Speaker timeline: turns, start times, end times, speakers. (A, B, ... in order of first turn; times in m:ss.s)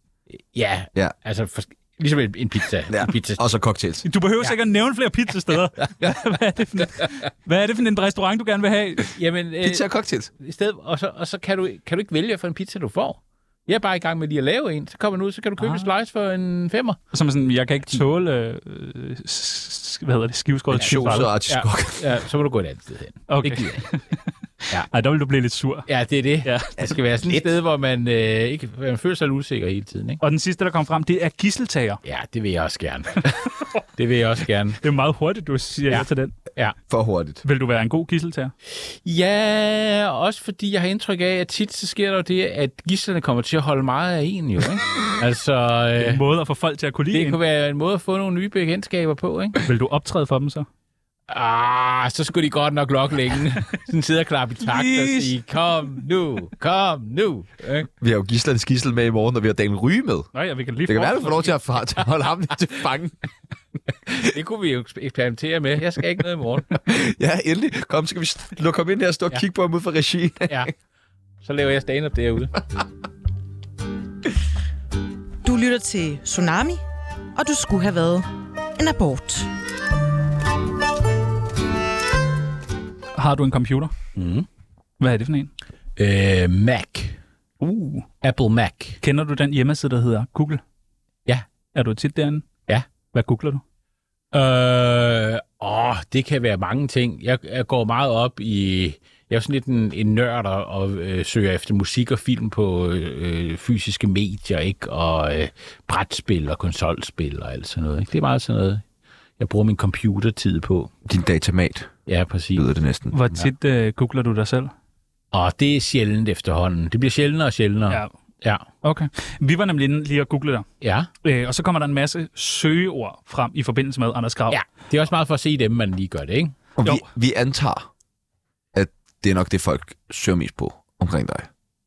0:00.4-0:03.4 A
0:02.9-0:04.1 B
0:04.0-0:09.1 C
0:09.2-0:09.8 A
0:09.6-0:10.3 B
0:10.4-0:17.0 A
0:15.6-0:15.9 C
0:17.1-0:21.3 C
0:20.7-0:22.2 B
0:20.8-0:23.8 A
0:23.3-0:25.9 C
0:25.9-0:30.2 A
0:26.4-0:26.9 C
0:30.2-0:32.0 C
0:32.0-0:33.3 A
0:33.2-0:33.8 C
0:34.0-0:34.8 A
0:34.8-0:36.3 C
0:35.9-0:36.8 A
0:36.9-0:37.4 B
0:37.4-0:38.5 C
0:38.7-0:46.2 A
0:46.0-0:47.4 C
0:47.1-0:49.6 A
0:49.6-0:50.7 C
0:51.3-0:57.9 A
0:54.7-0:55.4 C
0:58.0-1:00.3 B
1:00.3-1:01.7 C
1:00.8-1:03.2 B
1:04.2-1:06.7 A
1:06.7-1:10.7 B
1:11.4-1:12.6 A
1:15.4-1:16.8 D
1:17.4-1:18.3 D
1:18.8-1:19.5 D
1:23.2-1:23.9 C
1:24.2-1:24.5 A
1:25.0-1:25.5 C
1:26.0-1:27.2 A
1:27.6-1:28.1 C
1:28.2-1:29.0 A
1:29.0-1:30.6 C
1:31.7-1:32.5 C
1:33.1-1:33.6 C
1:34.3-1:48.8 A
1:49.4-1:50.9 A
1:51.1-1:51.9 B
1:52.1-1:52.7 A
1:52.6-1:53.5 B
1:53.1-1:54.7 C
1:55.3-1:58.6 A
1:58.8-2:00.7 C
2:00.8-2:01.1 A
2:01.2-2:04.6 C
2:04.5-2:06.6 A
2:06.8-2:07.9 B
2:08.7-2:11.5 B